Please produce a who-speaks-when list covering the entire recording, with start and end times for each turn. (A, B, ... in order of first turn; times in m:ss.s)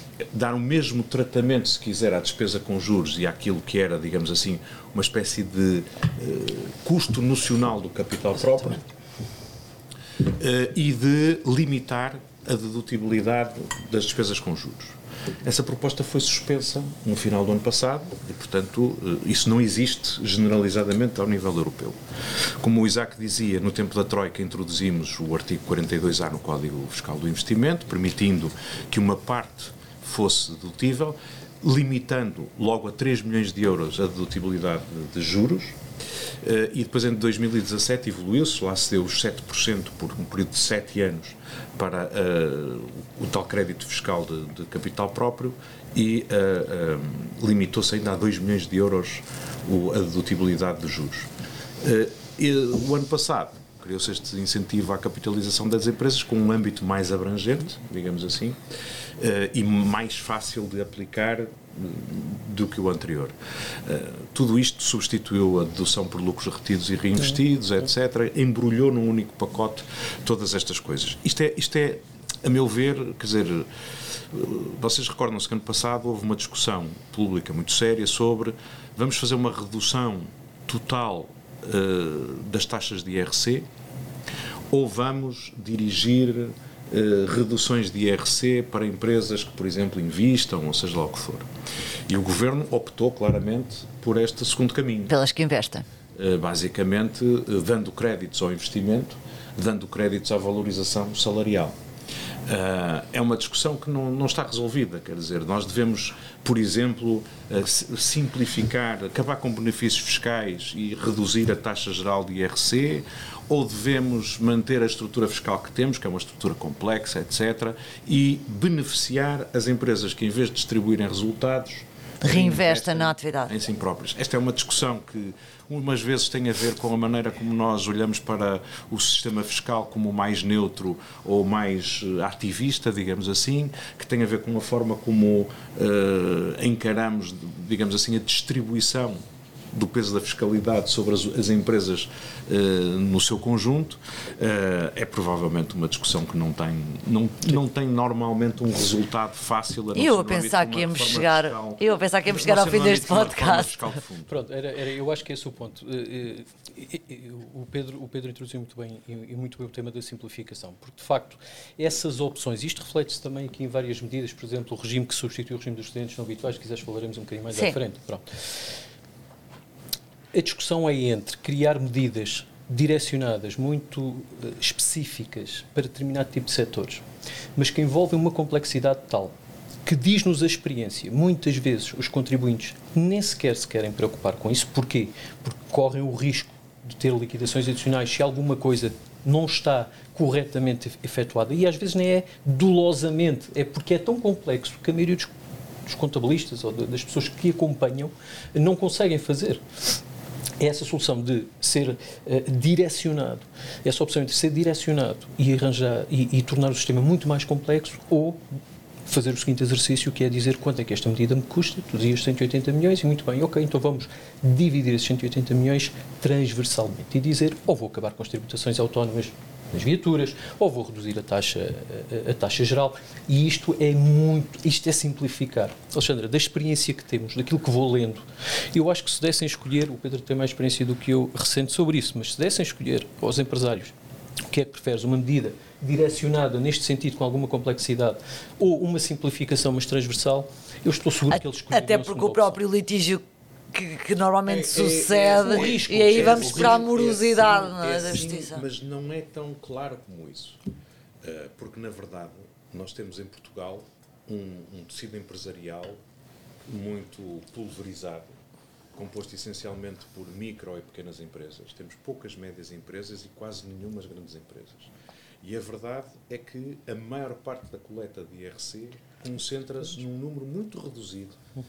0:00.2-0:08.8 A
0:10.2-0:22.0 A
0:22.6-0:35.8 A
0:36.4-0:51.3 A
0:51.8-0:58.6 A
0:59.2-1:13.7 A
1:14.3-1:23.7 A
1:24.7-1:31.5 A
1:32.1-1:35.2 A
1:35.1-1:35.9 B
1:36.2-1:41.8 A
1:42.5-2:19.2 A
2:02.2-2:03.5 B
2:19.7-2:34.3 A
2:30.0-2:33.7 B
2:34.3-2:48.4 C
2:50.3-2:57.0 C
2:57.6-2:59.4 C
2:59.9-3:15.3 C
3:15.9-3:19.6 C
3:20.6-3:28.4 C
3:29.1-3:53.9 C
3:54.5-4:02.6 C
4:01.3-4:08.6 B
4:04.5-4:10.6 A
4:05.4-4:06.9 C
4:11.2-4:16.0 A
4:16.7-4:18.3 A
4:19.0-4:24.9 A
4:25.4-4:31.4 A